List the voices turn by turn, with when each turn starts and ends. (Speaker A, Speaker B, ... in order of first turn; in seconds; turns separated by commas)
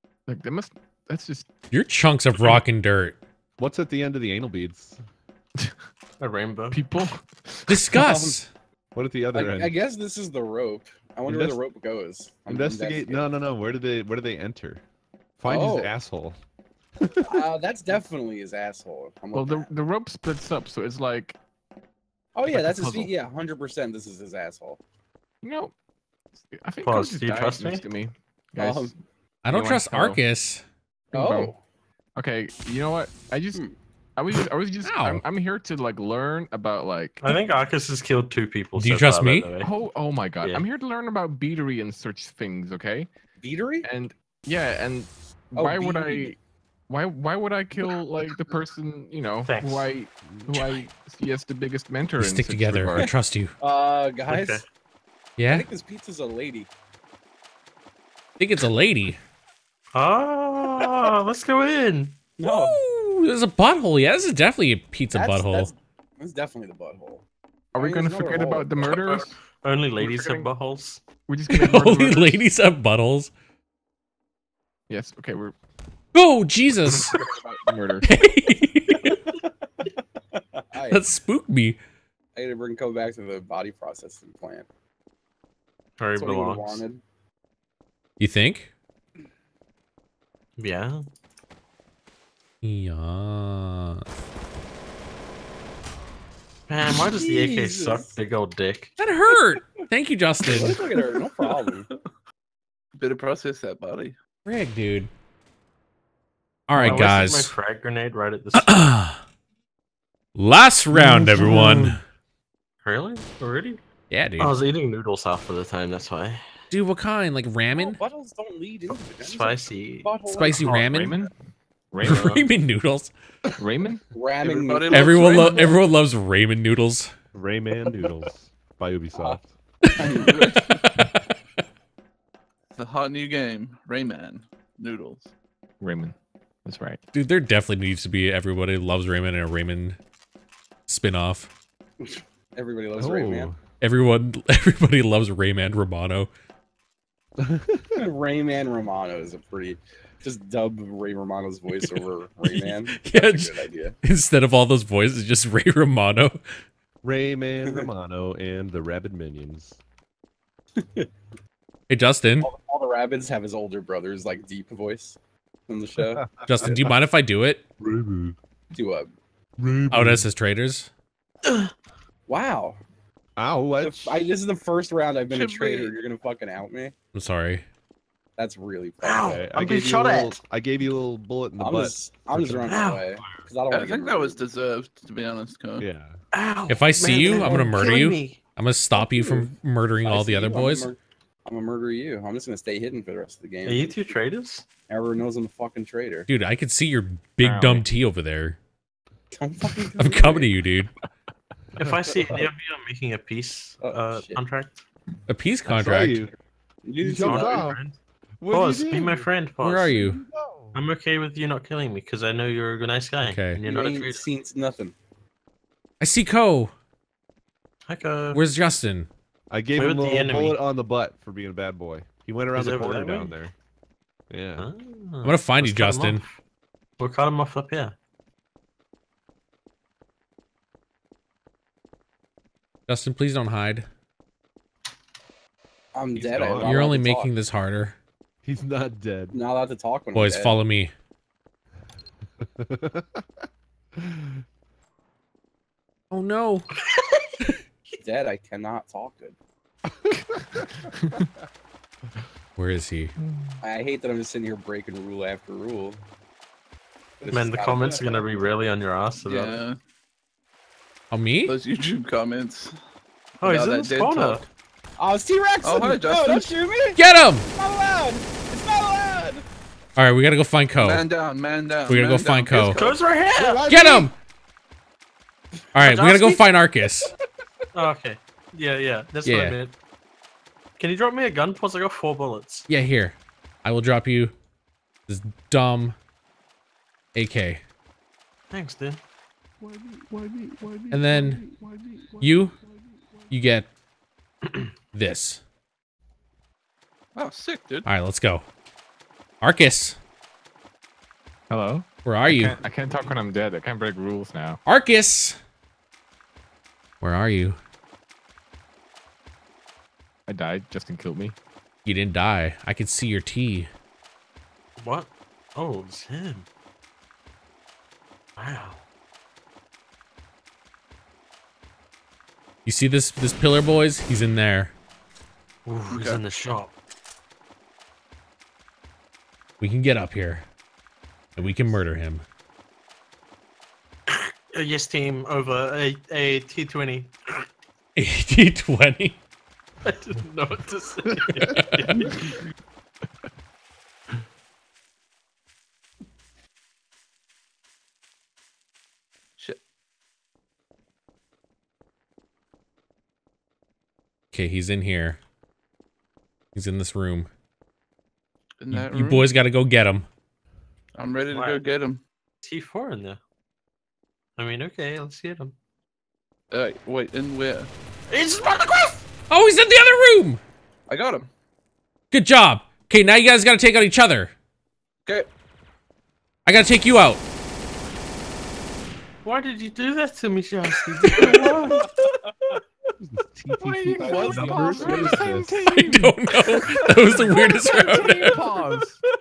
Speaker A: 0.3-1.5, Speaker B: 1.7-3.2, Speaker C: 3.6-5.0, Speaker D: 6.2-6.8, Speaker A: 6.7-7.8, Speaker B: 7.7-8.5, Speaker E: 8.0-8.4, Speaker C: 8.9-9.8, Speaker E: 9.3-13.2, Speaker C: 11.3-11.6, Speaker C: 12.5-14.8, Speaker C: 15.4-16.4, Speaker E: 15.5-15.9, Speaker C: 17.0-17.5, Speaker E: 17.3-19.7, Speaker A: 19.3-21.4, Speaker E: 22.4-24.8, Speaker A: 22.5-23.1, Speaker A: 25.4-25.7, Speaker A: 26.5-28.9, Speaker D: 26.8-27.9, Speaker E: 28.6-29.0, Speaker B: 29.4-30.6, Speaker A: 29.5-30.2, Speaker A: 31.1-31.5, Speaker E: 31.1-31.6, Speaker A: 32.2-33.6, Speaker A: 34.2-37.3, Speaker B: 34.8-35.2, Speaker D: 37.2-39.7, Speaker B: 38.8-39.5, Speaker A: 39.6-43.1, Speaker E: 43.4-43.9, Speaker A: 43.8-46.4, Speaker E: 45.6-46.4, Speaker A: 46.9-53.1, Speaker D: 49.5-49.9, Speaker B: 52.2-53.5, Speaker E: 53.0-54.6, Speaker D: 54.3-54.6, Speaker B: 55.4-55.7, Speaker E: 55.5-56.7, Speaker B: 58.4-59.2, Speaker D: 59.9-62.2, Speaker E: 62.4-62.8, Speaker B: 62.4-65.7, Speaker E: 65.1-67.2, Speaker E: 67.7-68.8, Speaker A: 67.7-69.3, Speaker D: 68.8-71.0, Speaker A: 70.0-70.5, Speaker A: 71.3-72.5, Speaker B: 71.5-73.3, Speaker A: 74.9-75.5, Speaker B: 76.1-77.2, Speaker A: 76.9-78.2, Speaker B: 78.0-79.2, Speaker E: 80.4-81.1, Speaker B: 80.9-81.8, Speaker E: 82.4-84.7, Speaker D: 86.0-86.8, Speaker E: 86.2-87.0, Speaker B: 88.2-88.7, Speaker D: 90.6-91.0, Speaker B: 92.6-94.0, Speaker D: 96.7-98.9, Speaker E: 96.9-98.2, Speaker B: 99.0-100.8, Speaker E: 99.3-99.8, Speaker E: 100.4-101.9, Speaker F: 103.0-104.2, Speaker B: 104.5-105.1, Speaker B: 106.7-107.5, Speaker D: 106.8-108.8, Speaker B: 108.5-109.2, Speaker B: 110.3-112.0, Speaker A: 110.9-112.0, Speaker D: 112.8-113.8, Speaker B: 114.1-114.5, Speaker D: 114.4-116.4, Speaker B: 116.7-118.0, Speaker E: 117.8-120.8, Speaker D: 118.9-120.9, Speaker B: 120.3-121.2, Speaker A: 120.9-121.3, Speaker A: 121.9-122.3, Speaker B: 122.0-123.1, Speaker D: 122.0-122.5, Speaker A: 123.6-124.0, Speaker E: 124.1-125.8, Speaker F: 124.4-125.8, Speaker B: 124.9-127.1, Speaker C: 127.3-129.5, Speaker B: 129.8-131.2, Speaker E: 130.0-130.7, Speaker F: 130.2-130.8, Speaker F: 132.8-135.3, Speaker A: 135.8-137.0, Speaker B: 137.1-140.0, Speaker B: 140.9-141.5, Speaker E: 142.0-143.5, Speaker C: 143.0-143.6, Speaker B: 143.8-146.3, Speaker C: 147.4-148.1, Speaker E: 148.0-154.0, Speaker B: 151.8-156.4, Speaker C: 157.0-159.8, Speaker E: 160.8-161.1, Speaker B: 161.9-162.5, Speaker E: 162.4-166.8, Speaker C: 166.0-167.0, Speaker B: 166.4-167.7, Speaker C: 167.8-168.4, Speaker E: 168.7-169.1, Speaker C: 169.6-170.3, Speaker B: 169.9-170.9, Speaker D: 171.5-171.7, Speaker E: 172.3-172.8, Speaker C: 173.4-174.3, Speaker E: 173.8-176.9, Speaker F: 175.3-176.0, Speaker B: 177.1-177.6, Speaker E: 178.4-179.4, Speaker D: 179.0-180.4, Speaker C: 179.2-182.8, Speaker E: 181.6-184.4, Speaker D: 182.7-183.3, Speaker F: 183.7-185.9, Speaker C: 185.8-186.2, Speaker D: 186.3-188.4, Speaker B: 186.7-190.9, Speaker E: 187.0-188.0, Speaker E: 188.9-194.2, Speaker D: 193.6-194.7, Speaker E: 194.9-196.3, Speaker B: 196.3-198.6, Speaker A: 197.4-197.9, Speaker E: 199.3-200.6, Speaker B: 200.0-200.9, Speaker D: 201.8-204.8, Speaker C: 201.8-202.2, Speaker E: 203.8-204.4, Speaker B: 205.3-206.3, Speaker C: 205.7-206.3, Speaker E: 206.8-207.7, Speaker C: 207.0-207.8, Speaker D: 207.2-208.0, Speaker C: 208.4-209.3, Speaker D: 208.5-209.9, Speaker B: 209.6-210.2, Speaker C: 209.9-210.8, Speaker D: 210.7-214.3, Speaker B: 213.2-213.6, Speaker E: 213.6-214.9, Speaker B: 216.0-216.7, Speaker D: 217.9-218.4, Speaker B: 218.3-219.1, Speaker C: 219.5-223.5, Speaker D: 219.8-220.6, Speaker D: 222.5-223.3, Speaker C: 224.3-224.7, Speaker D: 224.6-226.4, Speaker B: 225.2-226.2, Speaker D: 227.0-227.9, Speaker B: 232.9-233.8, Speaker E: 235.9-237.3, Speaker C: 236.1-236.8, Speaker B: 236.5-237.9, Speaker C: 238.4-239.4, Speaker E: 239.3-240.6, Speaker B: 240.1-240.9, Speaker C: 242.4-243.2, Speaker C: 243.9-244.4, Speaker B: 246.1-246.7, Speaker D: 246.8-247.3, Speaker E: 247.9-249.4, Speaker C: 250.0-250.7, Speaker A: 250.6-251.3, Speaker B: 252.6-253.1, Speaker E: 253.6-256.0, Speaker E: 257.2-258.4, Speaker D: 257.3-259.6, Speaker F: 259.2-259.8, Speaker B: 261.1-261.6, Speaker F: 261.5-262.8, Speaker F: 263.4-264.4, Speaker D: 263.4-264.5, Speaker E: 265.0-269.4, Speaker F: 265.6-266.5, Speaker B: 267.0-267.5, Speaker B: 270.0-271.1, Speaker F: 270.8-273.1, Speaker B: 271.9-272.8, Speaker D: 272.8-273.7, Speaker C: 273.4-274.1, Speaker B: 273.6-274.1, Speaker B: 275.8-277.1, Speaker D: 275.8-276.4, Speaker D: 277.7-279.7, Speaker B: 279.3-279.6, Speaker D: 280.8-282.7, Speaker B: 282.7-284.3, Speaker B: 285.1-285.9, Speaker B: 287.1-287.6, Speaker D: 288.5-289.0, Speaker C: 290.3-291.0, Speaker B: 290.9-291.4, Speaker B: 292.1-292.6, Speaker B: 293.3-293.7, Speaker B: 294.9-295.4, Speaker F: 297.2-297.9, Speaker B: 297.9-298.4, Speaker B: 299.4-300.0, Speaker A: 301.5-304.6, Speaker B: 302.1-302.6, Speaker B: 304.6-305.4, Speaker B: 307.0-307.6, Speaker A: 310.3-311.4, Speaker B: 311.9-313.7, Speaker D: 314.8-316.5, Speaker D: 318.4-318.8, Speaker B: 322.6-324.8, Speaker D: 325.7-326.7, Speaker F: 325.9-326.2, Speaker B: 329.6-330.5, Speaker C: 331.4-331.8, Speaker B: 331.4-332.2, Speaker D: 334.1-337.5, Speaker B: 338.0-339.2, Speaker D: 339.8-342.3, Speaker B: 341.4-342.2, Speaker F: 342.0-342.4, Speaker B: 354.3-355.2, Speaker B: 356.5-357.3, Speaker F: 358.6-359.3, Speaker B: 358.7-360.1, Speaker F: 360.9-362.0, Speaker D: 361.3-361.6, Speaker D: 362.4-363.2, Speaker D: 364.4-365.6, Speaker F: 366.5-367.7, Speaker D: 368.1-369.1, Speaker B: 369.3-370.4, Speaker F: 370.9-371.3, Speaker B: 372.1-374.3, Speaker B: 376.5-377.2, Speaker D: 379.2-381.9, Speaker B: 381.1-381.4, Speaker F: 381.2-381.9, Speaker E: 381.2-382.6, Speaker C: 383.0-385.6, Speaker A: 383.6-389.0, Speaker E: 384.0-385.3, Speaker B: 385.7-388.4, Speaker E: 387.3-387.9